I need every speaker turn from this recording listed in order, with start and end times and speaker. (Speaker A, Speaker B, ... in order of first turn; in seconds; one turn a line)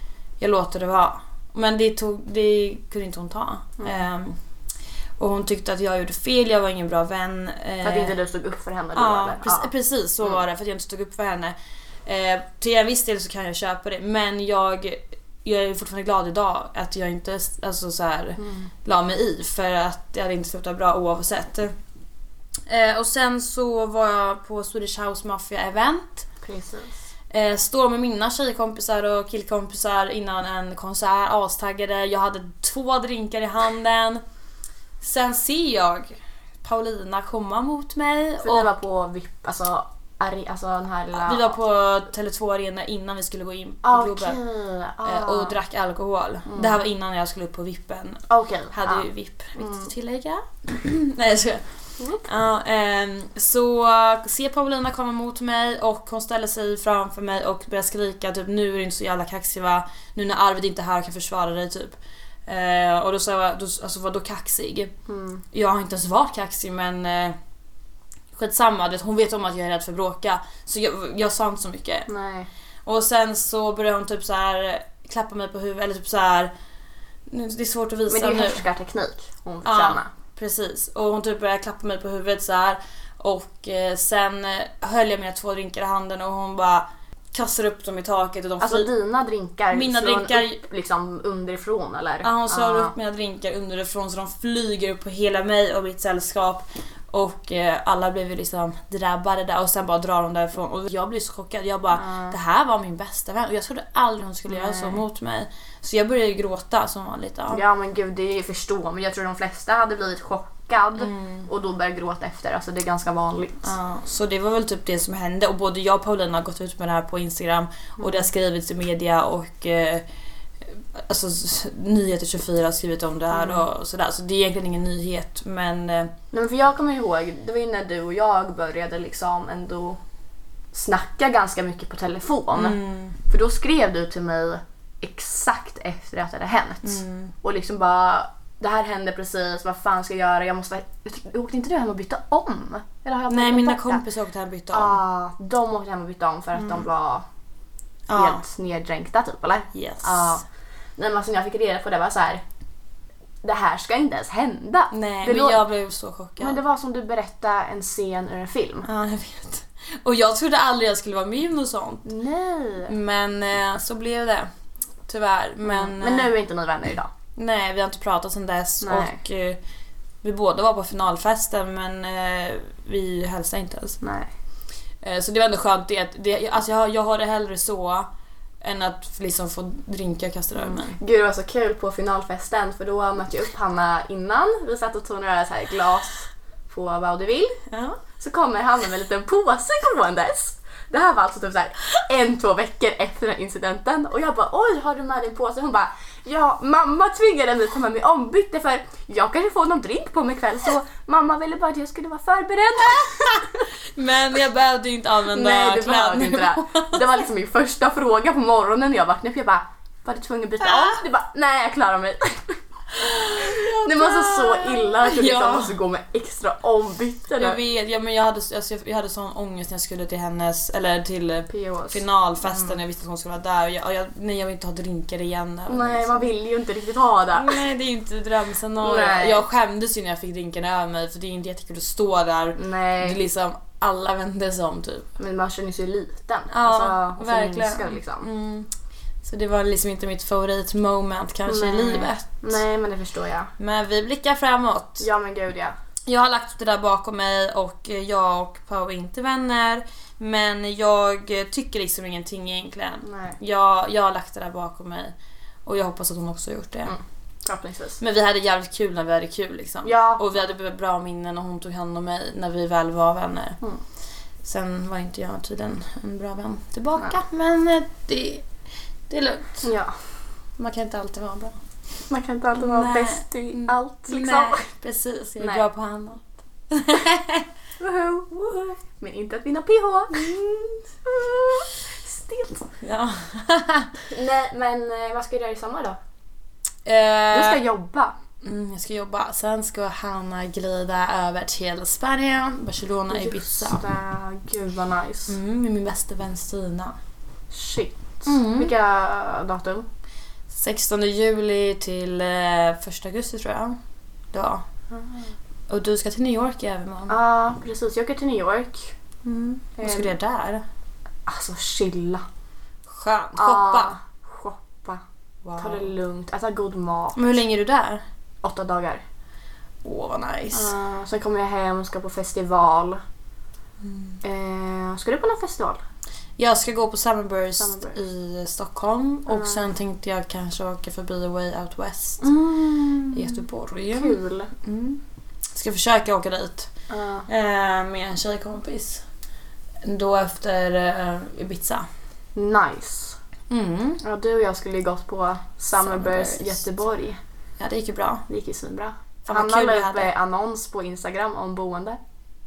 Speaker A: 0.4-4.4
Speaker A: 5.2-8.2
Speaker B: 7.8-9.7
Speaker A: 8.9-21.7
Speaker B: 18.4-18.7
Speaker A: 22.7-26.2
Speaker B: 26.4-27.0
Speaker A: 27.3-34.2
Speaker A: 35.0-38.7
Speaker B: 38.4-41.5
Speaker A: 41.1-44.4
Speaker B: 43.8-45.6
Speaker A: 45.0-51.6
Speaker B: 46.5-46.8
Speaker B: 48.3-49.9
Speaker B: 52.0-52.2
Speaker A: 52.2-64.9
Speaker B: 65.1-65.4
Speaker A: 65.5-67.3
Speaker A: 68.3-72.1
Speaker B: 72.1-72.5
Speaker A: 72.8-76.5
Speaker A: 77.3-78.6
Speaker B: 78.1-80.1
Speaker A: 79.6-88.9
Speaker B: 88.6-92.9
Speaker A: 89.7-90.6
Speaker A: 92.2-107.6
Speaker B: 101.9-102.3
Speaker B: 104.5-105.0
Speaker B: 107.5-113.7
Speaker A: 111.0-111.5
Speaker A: 113.6-120.0
Speaker B: 118.0-118.3
Speaker A: 120.6-126.1
Speaker B: 123.3-123.6
Speaker B: 126.3-130.0
Speaker B: 130.7-144.0
Speaker A: 132.5-133.2
Speaker A: 136.8-137.3
Speaker A: 143.3-145.0
Speaker B: 144.7-147.2
Speaker A: 146.6-146.8
Speaker A: 148.1-148.4
Speaker B: 148.1-150.4
Speaker A: 149.7-150.4
Speaker B: 151.0-152.4
Speaker B: 153.4-155.6
Speaker A: 154.9-156.6
Speaker B: 156.4-158.9
Speaker A: 158.8-162.1
Speaker B: 162.0-162.9
Speaker A: 162.9-164.5
Speaker A: 165.1-166.3
Speaker B: 165.6-167.1
Speaker A: 167.3-169.6
Speaker B: 168.8-169.2
Speaker A: 170.2-174.0
Speaker B: 174.0-174.3
Speaker A: 175.0-178.1
Speaker A: 178.6-181.0
Speaker B: 180.6-187.6
Speaker A: 187.7-188.0
Speaker B: 188.2-203.6
Speaker A: 203.9-207.1
Speaker B: 205.3-212.6
Speaker A: 210.6-211.0
Speaker A: 212.9-215.8
Speaker B: 213.2-217.6
Speaker A: 217.4-226.3
Speaker B: 221.5-222.8
Speaker B: 225.7-227.6
Speaker A: 227.3-235.1
Speaker B: 228.8-229.4
Speaker B: 232.6-233.2
Speaker B: 235.2-238.3
Speaker A: 236.5-238.7
Speaker A: 239.2-242.6
Speaker B: 241.4-243.5
Speaker A: 243.6-245.1
Speaker B: 245.0-245.7
Speaker A: 246.1-255.1
Speaker B: 253.0-253.4
Speaker A: 255.7-256.9
Speaker B: 256.9-258.0
Speaker A: 258.0-263.6
Speaker B: 259.8-260.3
Speaker A: 264.4-268.4
Speaker A: 269.1-269.6
Speaker B: 269.6-269.9
Speaker A: 270.6-271.6
Speaker B: 272.1-274.7
Speaker A: 272.6-277.5
Speaker B: 277.8-282.7
Speaker A: 280.1-280.4
Speaker A: 282.8-283.9
Speaker B: 284.1-286.0
Speaker A: 286.8-287.6
Speaker B: 287.3-288.1
Speaker A: 288.4-293.8
Speaker B: 293.1-295.4
Speaker A: 295.3-297.0
Speaker B: 297.5-299.9
Speaker A: 298.2-298.7
Speaker A: 300.5-303.8
Speaker A: 304.3-304.6
Speaker B: 304.9-305.3
Speaker A: 305.7-307.1
Speaker B: 307.1-308.9
Speaker A: 309.2-310.6
Speaker B: 309.8-310.1
Speaker B: 311.2-312.2
Speaker A: 312.9-313.9
Speaker B: 313.4-315.0
Speaker A: 315.4-315.9
Speaker B: 315.6-317.4
Speaker A: 317.1-318.0
Speaker B: 318.4-319.0
Speaker A: 319.8-320.7
Speaker B: 320.5-323.0
Speaker A: 323.8-324.2
Speaker B: 324.2-325.8
Speaker A: 326.4-332.3
Speaker B: 327.6-327.9
Speaker B: 329.3-329.6
Speaker B: 332.2-334.5
Speaker A: 333.1-336.7
Speaker B: 336.9-337.3
Speaker A: 337.3-339.0
Speaker A: 339.8-341.9
Speaker B: 342.4-343.2
Speaker A: 343.5-344.0
Speaker B: 344.0-347.2
Speaker A: 345.8-346.6
Speaker A: 347.6-348.2
Speaker B: 348.3-352.0
Speaker A: 349.2-350.1